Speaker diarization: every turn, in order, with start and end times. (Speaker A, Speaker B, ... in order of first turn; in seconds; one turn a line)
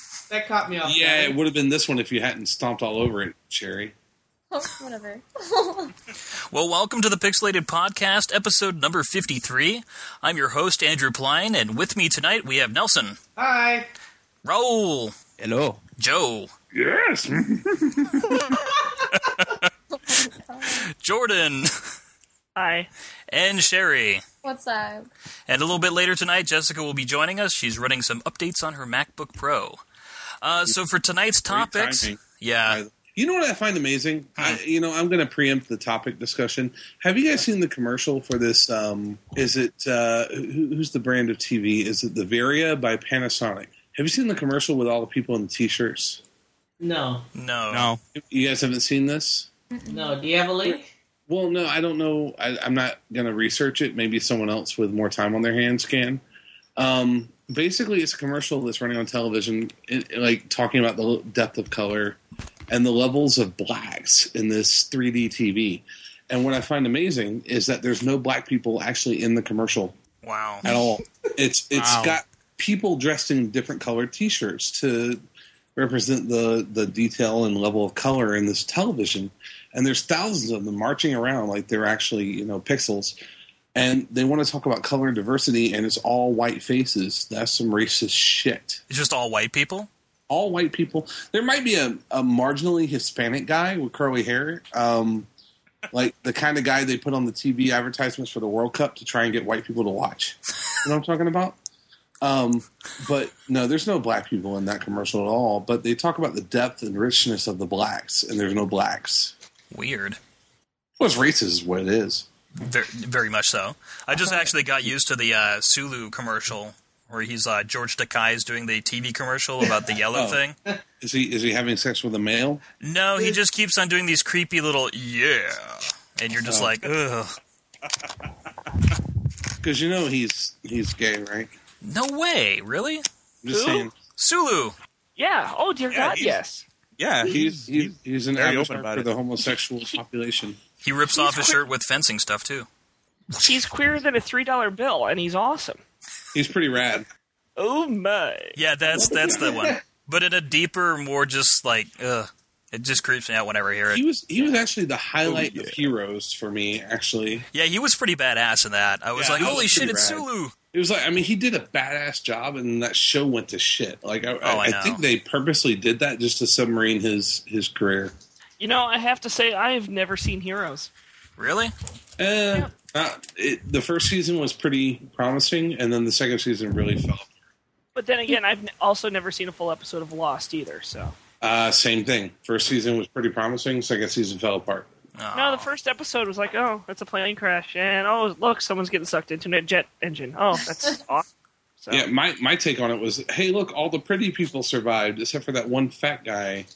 Speaker A: 0.3-1.4
Speaker B: 0.8-3.9
Speaker C: 4.5-5.9
Speaker D: 6.5-13.2
Speaker A: 13.4-13.9
Speaker D: 14.4-15.2
Speaker E: 15.4-15.8
Speaker D: 16.0-16.5
Speaker B: 16.7-18.5
Speaker C: 20.0-20.9
Speaker D: 20.9-21.9
Speaker F: 22.6-22.9
Speaker D: 23.3-24.2
Speaker C: 24.4-25.1
Speaker D: 25.5-29.8
Speaker D: 30.4-32.8
Speaker B: 31.5-46.2
Speaker A: 46.8-47.3
Speaker D: 47.4-47.9
Speaker E: 47.7-48.0
Speaker B: 48.1-49.5
Speaker C: 49.7-50.2
Speaker A: 49.9-50.9
Speaker B: 50.6-56.2
Speaker B: 56.8-62.2
Speaker B: 62.7-70.0
Speaker D: 70.2-70.6
Speaker B: 70.6-75.2
Speaker D: 71.8-72.2
Speaker B: 75.8-83.2
Speaker B: 83.8-88.8
Speaker D: 88.9-89.9
Speaker B: 90.3-95.3
Speaker B: 95.9-101.6
Speaker B: 102.2-109.3
Speaker D: 109.7-110.2
Speaker B: 111.0-112.3
Speaker D: 112.6-120.6
Speaker B: 120.1-120.4
Speaker B: 121.0-122.6
Speaker D: 122.8-127.4
Speaker B: 126.5-126.8
Speaker B: 129.6-131.5
Speaker D: 131.8-133.0
Speaker B: 133.4-133.9
Speaker F: 133.5-133.9
Speaker D: 134.2-134.8
Speaker F: 135.2-136.6
Speaker E: 135.9-136.4
Speaker E: 137.0-139.1
Speaker B: 137.2-140.6
Speaker D: 140.8-142.7
Speaker F: 141.2-141.6
Speaker F: 143.4-145.8
Speaker B: 146.3-147.1
Speaker F: 147.6-148.6
Speaker D: 148.6-154.0
Speaker B: 148.9-149.5
Speaker A: 149.1-149.8
Speaker B: 153.9-157.5
Speaker E: 155.2-155.8
Speaker D: 157.5-160.5
Speaker E: 159.2-159.9
Speaker B: 159.3-168.1
Speaker D: 164.4-165.0
Speaker F: 168.6-170.9
Speaker D: 171.4-171.7
Speaker B: 172.2-177.3
Speaker F: 177.9-181.2
Speaker B: 181.4-184.9
Speaker D: 185.2-185.7
Speaker F: 185.3-191.3
Speaker F: 191.8-192.1
Speaker B: 191.9-196.7